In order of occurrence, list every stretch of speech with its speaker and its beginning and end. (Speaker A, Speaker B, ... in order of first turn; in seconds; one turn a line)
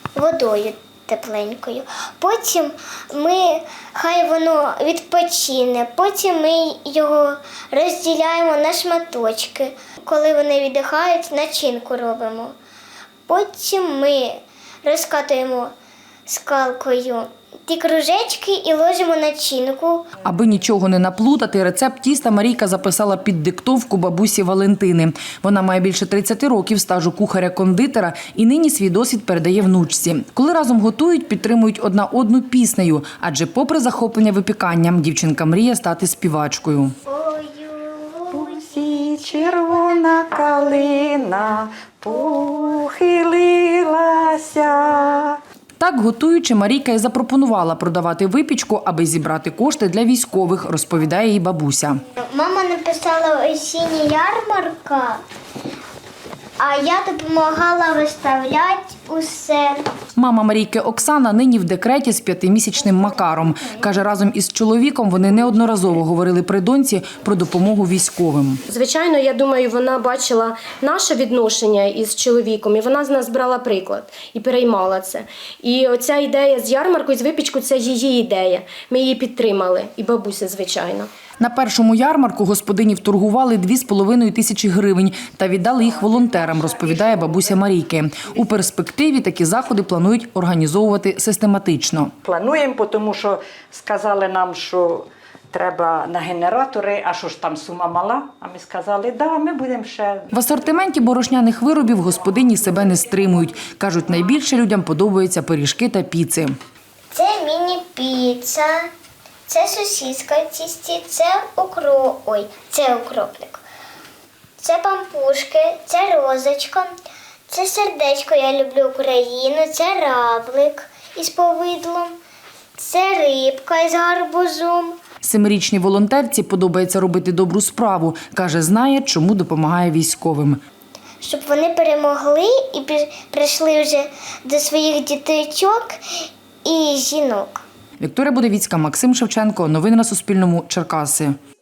Speaker A: 0.1-12.5
Speaker A: 13.3-15.7
Speaker A: 16.3-20.1
Speaker B: 20.2-36.9
Speaker A: 37.0-38.6
Speaker C: 38.3-45.4
Speaker B: 45.8-52.0
Speaker A: 52.1-55.2
Speaker A: 56.6-59.9
Speaker B: 60.1-68.6
Speaker D: 68.7-81.1
Speaker B: 81.4-92.1
Speaker C: 86.0-87.5
Speaker C: 92.2-100.3
Speaker B: 100.3-106.5
Speaker A: 107.1-108.9
Speaker A: 109.5-113.6
Speaker A: 114.6-116.9
Speaker A: 117.5-122.2
Speaker A: 122.8-125.0
Speaker B: 125.2-130.6
Speaker A: 131.2-135.9
Speaker A: 136.6-137.6
Speaker B: 138.0-141.3